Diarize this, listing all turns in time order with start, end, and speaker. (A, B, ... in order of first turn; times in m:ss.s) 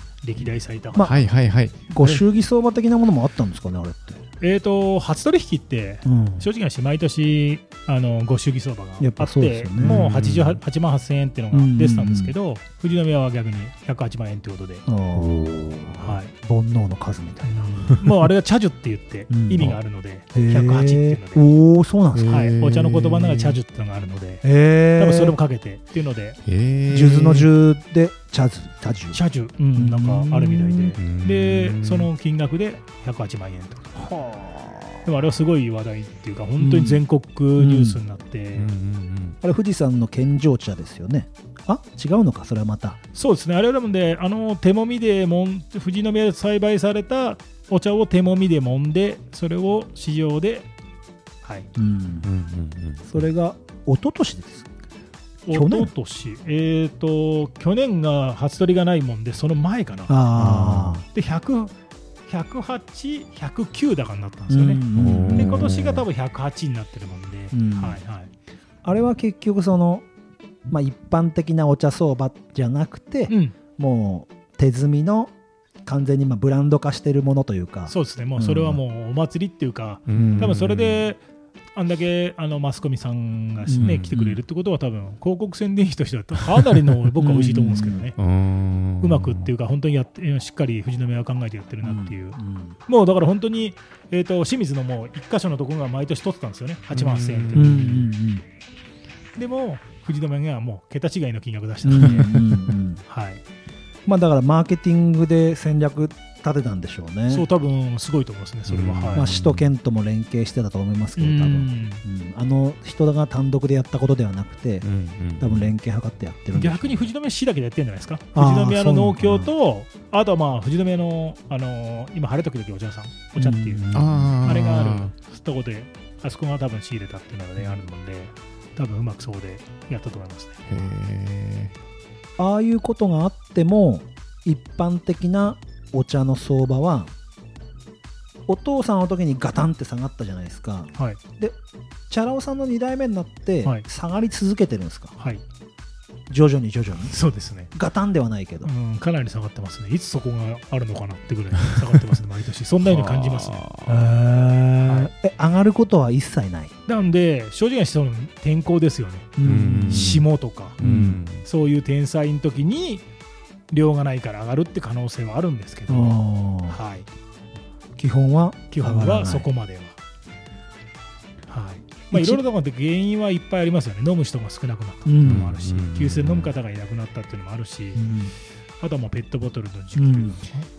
0:00.2-0:01.1 A
0:00.9-0:01.2 B
0:01.0-0:02.2 C
0:01.9-0:04.2 B
0:04.4-0:14.8 A
0:06.0-0:06.5 B
0:09.0-0:10.0 B
0:09.8-0:10.6 C
0:11.5-0:12.3 B
0:14.8-0:18.0 B
0:15.2-0:15.4 C
0:16.0-0:16.3 A
0:17.4-0:21.4 A
0:19.3-0:19.8 B
0:20.3-0:22.5 B
0:22.1-0:23.6 C
0:22.3-0:26.4 A
0:24.4-0:25.4 B
0:26.4-0:27.5 C
0:26.9-0:29.2 B
0:29.1-0:33.9 A
0:29.7-0:31.0 B
0:31.0-0:32.1 C
0:33.9-0:35.1 B
0:35.0-0:38.7 A
0:36.6-0:37.0 B
0:37.6-0:38.0 B
0:38.5-0:39.4 C
0:39.4-0:43.0 B
0:43.1-0:50.7 A
0:51.8-0:52.3 B
0:52.2-0:53.3 C
0:53.0-0:54.7 B
0:55.5-1:00.2 A
0:55.5-0:55.9 B
1:00.1-1:01.0 B
1:00.4-1:01.0 C
1:01.1-1:01.7 A
1:02.3-1:04.8 A
1:04.5-1:06.0 B
1:05.0-1:06.0 C
1:05.3-1:08.3 A
1:07.5-1:08.0 B
1:08.8-1:10.0 B
1:10.7-1:15.3 B
1:13.3-1:13.5 A
1:15.8-1:18.8 B
1:17.9-1:21.2 A
1:20.1-1:21.0 C
1:20.1-1:20.6 B
1:21.7-1:28.2 A
1:23.6-1:24.4 B
1:23.8-1:24.2 C
1:27.2-1:28.1 B
1:28.2-1:29.5 C
1:29.0-1:37.7 A
1:31.8-1:32.8 B
1:36.9-1:38.1 C
1:37.5-1:38.4 B
1:39.4-1:42.4 A
1:41.8-1:43.0 B
1:42.1-1:42.7 C
1:43.1-1:43.4 A
1:44.0-1:47.4 B
1:47.3-1:49.3 A
1:48.7-1:49.7 C
1:49.1-1:54.8 B
1:51.2-1:52.0 A
1:54.8-1:55.7 C
1:55.4-1:57.1 B
1:56.5-2:03.9 A
1:58.3-1:59.5 B
2:03.3-2:04.4 B
2:03.9-2:05.1 C
2:04.4-2:10.6 A
2:10.6-2:11.7 C
2:12.4-2:17.1 B
2:18.5-2:21.6 B
2:22.1-2:25.1 B
2:26.3-2:27.2 B
2:27.0-2:27.7 A
2:27.7-2:28.7 B
2:28.6-2:33.6 A
2:32.8-2:34.1 C
2:33.9-2:36.7 B
2:34.8-2:35.1 A
2:36.9-2:40.8 A
2:39.4-2:40.2 B
2:39.4-2:41.4 C
2:40.8-2:41.2 B
2:41.4-2:43.0 A
2:43.7-2:46.1 A
2:45.9-2:46.8 B
2:46.7-2:47.1 A
2:48.0-2:49.5 B
2:48.7-2:50.0 A
2:51.5-2:58.0 A
2:52.1-2:52.4 B
2:55.0-2:55.4 B
2:55.2-2:56.5 C
2:57.9-2:58.3 B
2:58.8-3:00.5 A
3:00.0-3:00.5 B